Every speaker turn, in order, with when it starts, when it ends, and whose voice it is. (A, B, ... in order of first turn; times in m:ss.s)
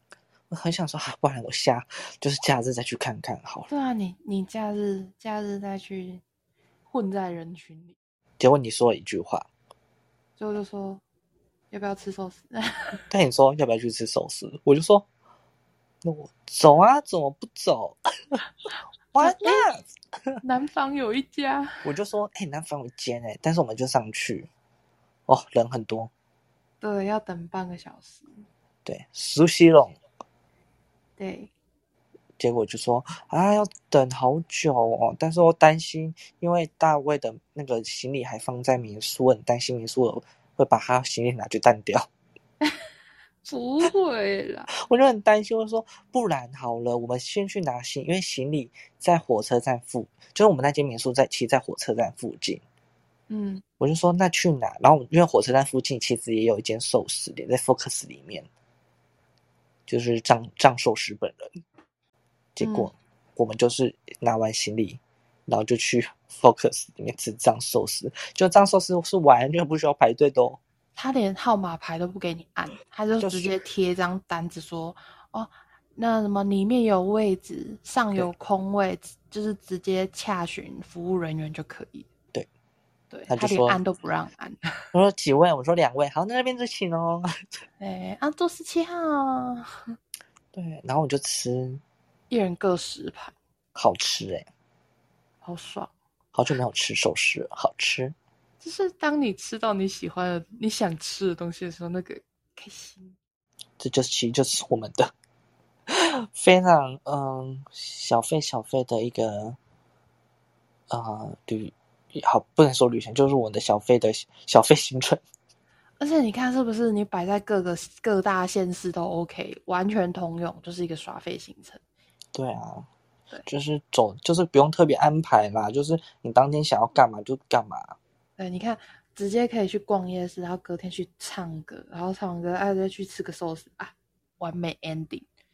0:00.5-0:03.7 A
0:03.7-0:06.2 B
0:06.9-0:08.0 B
0:08.4-0:09.5 A
0:10.4-0:11.0 B
0:11.7-0:13.0 B
0:13.1-0:15.0 A
0:16.0-0:18.4 A
0:19.1-0:20.4 A
0:19.2-0:19.6 B
0:20.4-0:21.9 B
0:21.8-0:24.5 A
0:25.3-0:26.1 A
0:26.8-0:28.4 B
0:28.8-0:30.0 A
0:31.2-0:31.5 B
0:32.4-0:42.1 A
0:43.5-0:44.7 B
0:44.7-0:52.6 A
0:53.3-0:53.6 B
0:53.8-0:58.5 A
0:59.9-1:01.6 A
1:02.6-1:10.6 A
1:02.6-1:02.9 B
1:11.0-1:22.1 B
1:13.2-1:13.6 A
1:23.1-1:24.9 B
1:23.3-1:23.8 A
1:24.9-1:27.6 A
1:27.8-1:29.7 B
1:30.5-1:31.8 A
1:32.3-1:33.3 B
1:33.7-1:34.4 A
1:35.4-1:35.9 B
1:36.3-1:38.1 A
1:38.6-1:43.2 B
1:43.8-1:45.1 A
1:45.9-1:49.6 A
1:50.9-1:55.2 A
1:56.0-2:01.8 B
2:02.3-2:02.9 A
2:03.4-2:08.0 A
2:08.4-2:15.2 B